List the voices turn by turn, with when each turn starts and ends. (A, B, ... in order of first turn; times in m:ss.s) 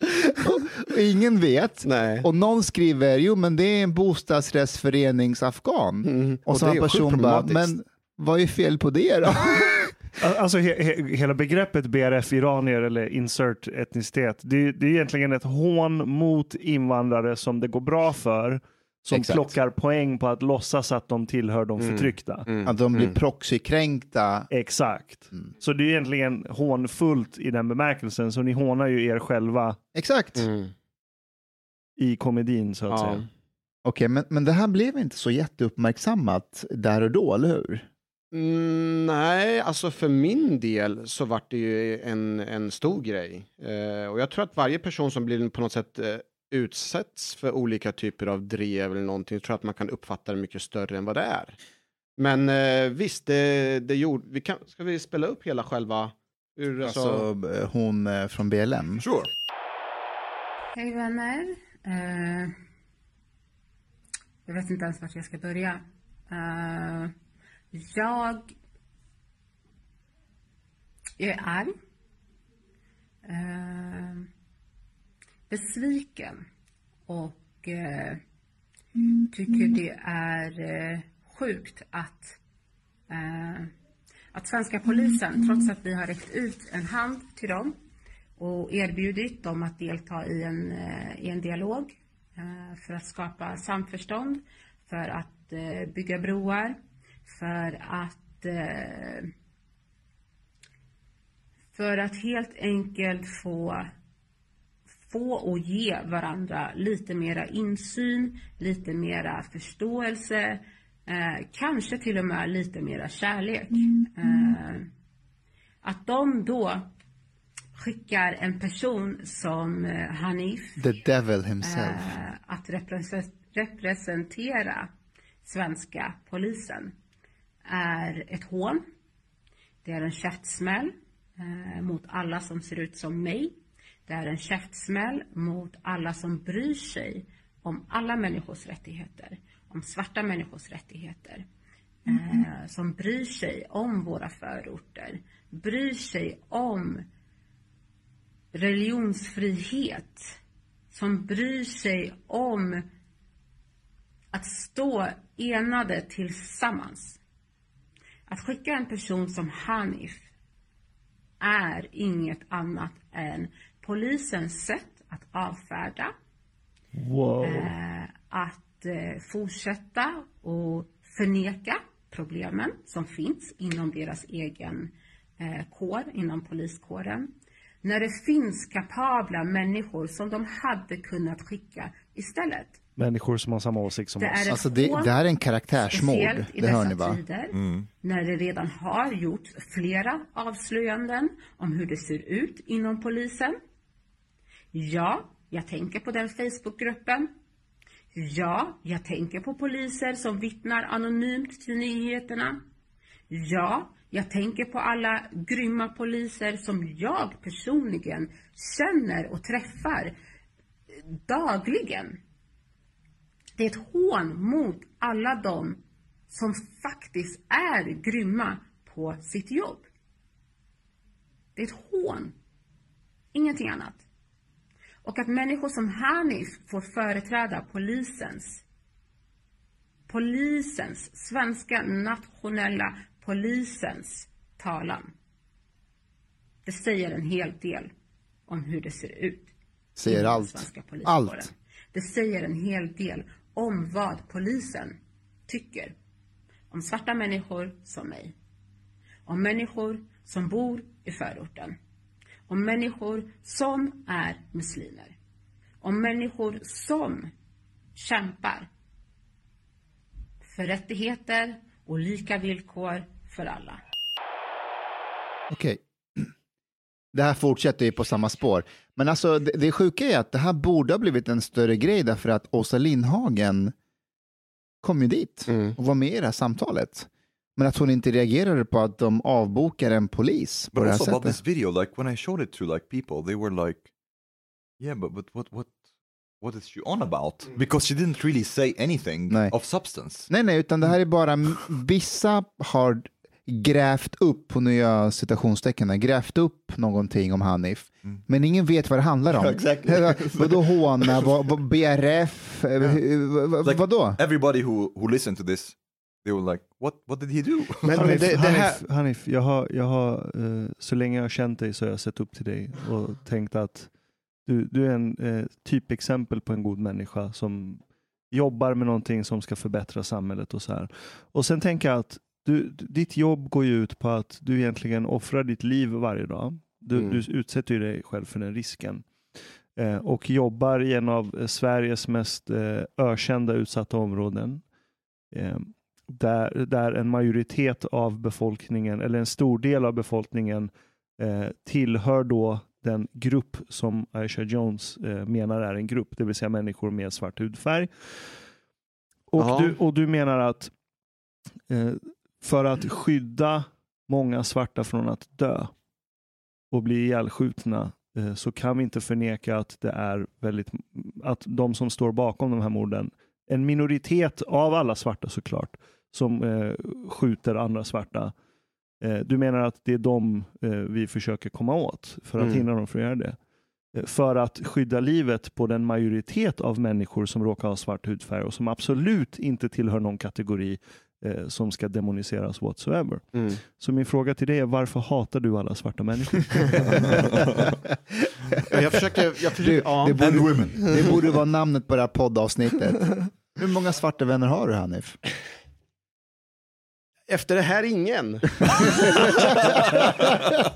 0:00.2-0:10.0 A
0:01.8-0:02.2 B
0:06.0-0:07.7 B
0:10.2-0:22.5 C
0:19.1-0:19.5 A
0:21.8-0:23.2 B
0:22.6-0:24.5 A
0:24.5-0:29.8 C
0:29.9-0:30.5 A
0:30.4-0:30.7 B
0:32.0-0:33.2 C
0:32.9-0:33.2 B
0:33.8-0:37.9 A
0:38.3-0:51.6 B
0:52.2-0:57.3 B
0:56.8-0:59.0 A
0:59.0-0:59.3 D
1:00.7-1:02.5 E
1:04.4-1:07.1 E
1:07.7-1:08.5 E
1:11.2-1:11.7 E
1:13.2-1:14.3 E
1:15.5-1:16.4 E
1:17.1-1:18.2 E
1:19.3-1:22.4 E
1:23.1-1:23.7 E
1:24.3-1:27.8 E
1:28.4-1:39.3 E
1:41.7-1:43.9 E
1:45.1-1:54.9 E
1:55.8-1:56.9 E
1:57.8-2:00.8 E
2:00.8-2:02.1 A
2:01.6-2:04.9 E
2:05.4-2:06.9 E
2:07.7-2:08.8 E
2:09.8-2:21.4 E
2:22.0-2:27.0 E
2:28.5-2:30.2 E
2:30.9-2:32.8 E
2:34.3-2:37.2 E
2:38.3-2:40.2 E
2:41.4-2:46.1 E
2:46.9-2:47.7 C
2:47.4-2:57.3 E
2:57.8-3:02.8 E
3:03.0-3:04.6 C
3:04.2-3:05.1 E
3:04.5-3:07.2 A
3:05.8-3:13.6 E
3:07.5-3:07.9 D
3:14.7-3:17.3 E
3:18.1-3:22.6 E
3:23.3-3:30.1 E
3:31.2-3:32.2 E
3:33.6-3:39.9 E
3:41.6-3:42.3 E
3:43.3-3:44.0 E
3:45.0-3:48.6 E
3:50.1-3:55.1 E
3:56.6-3:57.9 E
3:58.5-3:59.5 E
4:00.0-4:01.5 A
4:00.0-4:05.9 E
4:06.7-4:08.3 E
4:09.2-4:11.8 E
4:12.5-4:15.1 E
4:15.8-4:17.3 E
4:17.9-4:18.7 E
4:20.5-4:23.8 E
4:25.5-4:26.3 A
4:27.1-4:33.7 A
4:34.8-4:41.4 A
4:35.5-4:35.7 B
4:40.7-4:43.9 D
4:44.8-4:45.8 D
4:46.4-4:50.3 D
4:50.3-5:04.2 A
4:59.3-5:01.2 D
5:03.6-5:08.2 D
5:07.8-5:08.8 B
5:07.9-5:13.9 C
5:14.4-5:29.0 C
5:26.9-5:27.2 B
5:29.8-5:34.6 C
5:35.3-5:47.9 C
5:49.3-5:50.7 C
5:49.4-5:49.7 B
5:51.7-5:55.7 C
5:56.7-6:08.3 C
6:09.0-6:13.4 C
6:13.9-6:27.1 C
6:28.7-6:30.3 B
6:29.5-6:35.2 A
6:30.2-6:31.1 D
6:37.3-6:40.1 B